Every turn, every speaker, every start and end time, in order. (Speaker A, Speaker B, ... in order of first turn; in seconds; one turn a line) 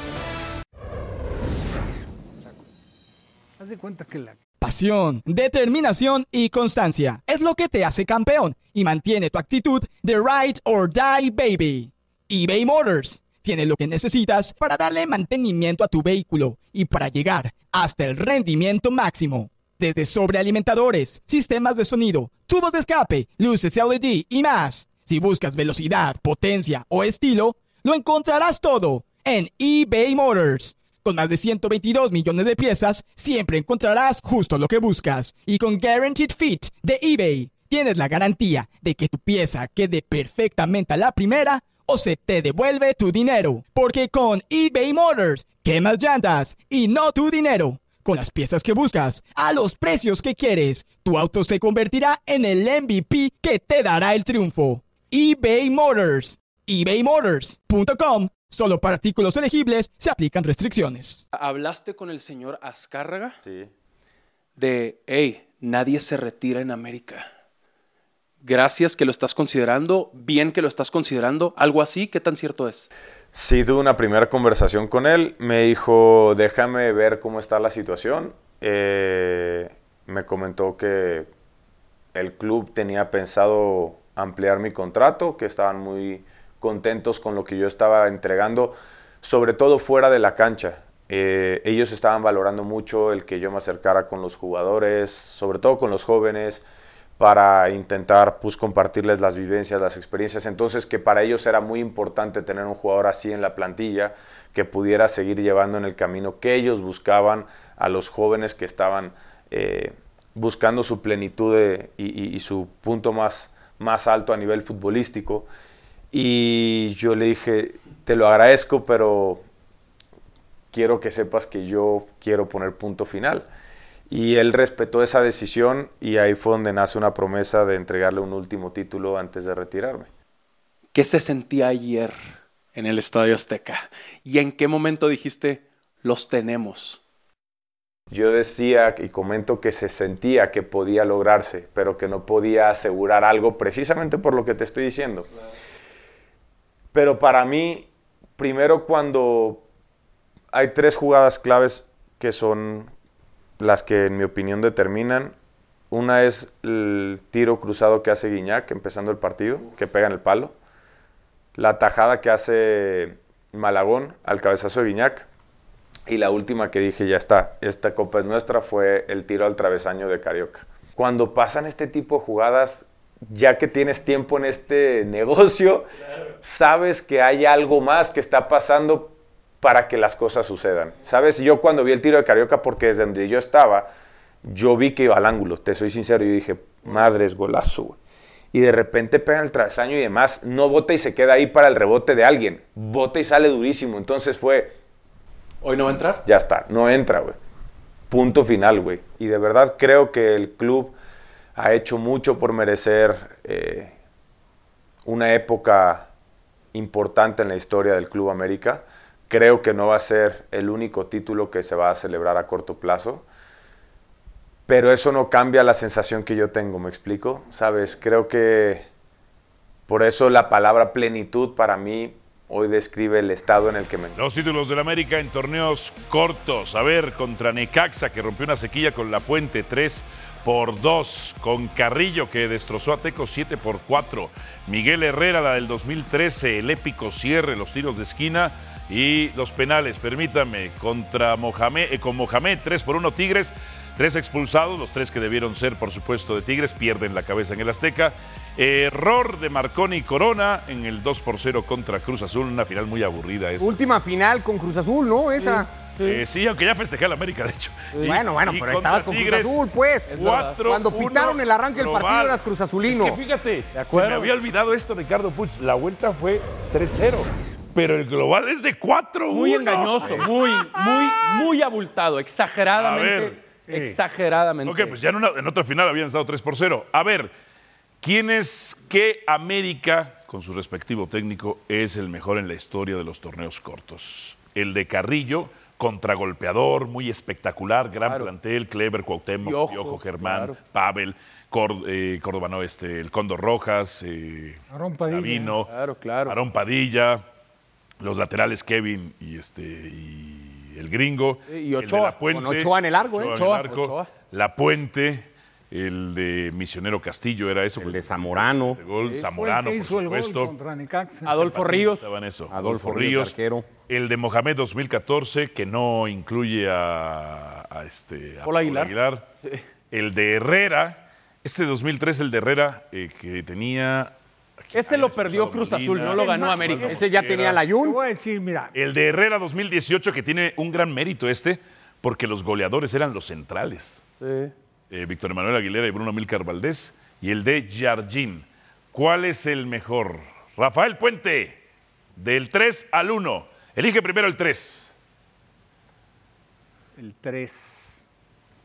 Speaker A: 3.6-4.4
Speaker B: 4.6-61.2
Speaker C: 61.3-63.4
Speaker C: 64.6-67.3
Speaker C: 68.4-72.9
Speaker D: 73.3-81.3
Speaker D: 82.1-96.7
Speaker D: 97.2-115.5
Speaker D: 116.1-119.4
Speaker D: 120.7-123.5
Speaker D: 124.1-130.1
Speaker C: 130.9-132.2
Speaker C: 132.7-137.0
Speaker D: 138.1-145.3
Speaker D: 146.9-149.6
Speaker D: 150.5-152.9
Speaker D: 153.6-155.3
Speaker D: 155.9-160.5
Speaker D: 161.6-165.3
Speaker D: 166.1-175.8
Speaker D: 176.4-183.9
Speaker D: 184.4-188.0
Speaker D: 188.5-194.7
Speaker C: 195.6-196.2
Speaker D: 196.2-197.3
Speaker D: 198.1-200.9
Speaker D: 201.6-203.9
Speaker D: 205.0-206.1
Speaker D: 206.7-213.2
Speaker D: 214.7-218.9
Speaker D: 219.9-224.2
Speaker E: 224.2-253.8
Speaker F: 253.6-255.7
Speaker C: 255.4-256.2
Speaker E: 256.0-270.4
Speaker C: 257.9-258.2
Speaker F: 258.0-263.2
Speaker C: 260.1-260.6
Speaker C: 263.7-264.3
Speaker C: 269.3-275.0
Speaker E: 272.7-273.4
Speaker A: 273.7-274.0
Speaker E: 274.6-277.3
Speaker E: 278.0-295.7
Speaker C: 288.0-288.3
Speaker C: 289.4-290.6
Speaker A: 294.7-295.6
Speaker C: 295.7-296.4
Speaker E: 296.2-297.2
Speaker E: 298.0-310.5
Speaker C: 301.5-302.2
Speaker F: 302.3-303.4
Speaker C: 303.3-304.1
Speaker F: 307.8-308.8
Speaker C: 309.0-309.2
Speaker A: 309.1-311.4
Speaker C: 311.2-312.2
Speaker E: 311.3-313.4
Speaker F: 312.5-313.7
Speaker E: 313.9-319.3
Speaker C: 318.4-319.6
Speaker E: 319.9-327.6
Speaker C: 324.7-327.1
Speaker A: 326.0-328.7
Speaker F: 326.8-328.0
Speaker E: 328.7-334.0
Speaker C: 334.2-334.5
Speaker E: 334.9-341.6
Speaker E: 342.1-344.9
Speaker A: 347.0-348.0